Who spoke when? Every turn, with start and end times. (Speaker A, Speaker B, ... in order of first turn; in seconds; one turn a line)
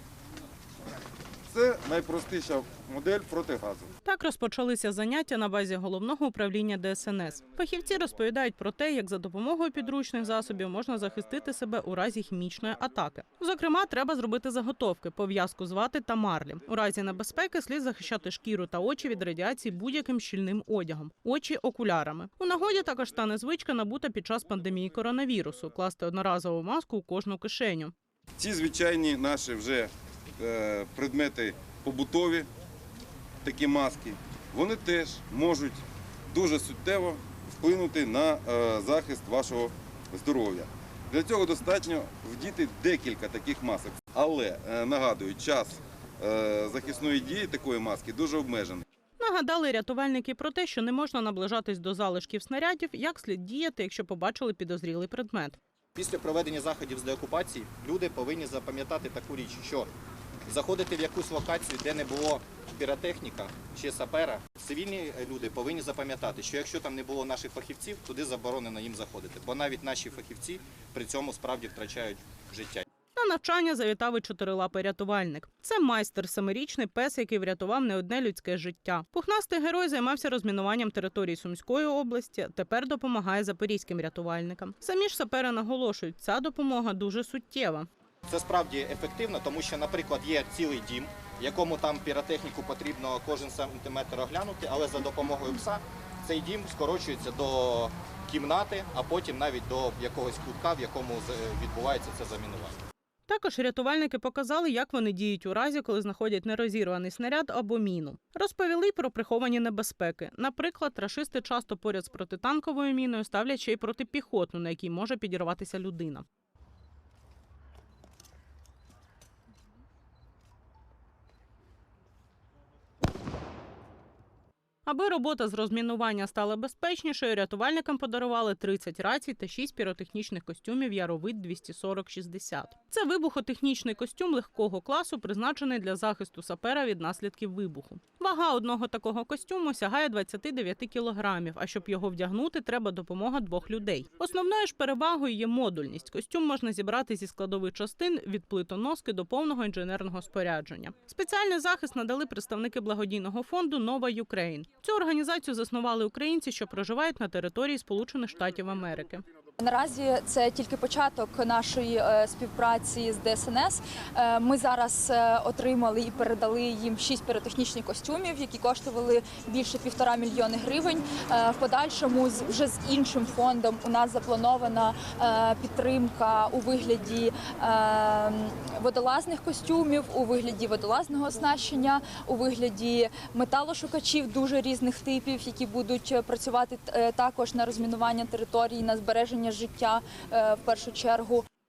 Speaker A: 1.5-3.9
Speaker B: 4.0-27.9
Speaker A: 28.4-32.5
Speaker A: 33.4-48.8
Speaker B: 49.2-55.6
Speaker C: 55.9-59.9
Speaker C: 60.5-72.9
Speaker B: 73.2-87.9
Speaker C: 88.3-102.8
Speaker B: 103.3-116.2
Speaker B: 124.8-159.2
Speaker D: 159.6-191.4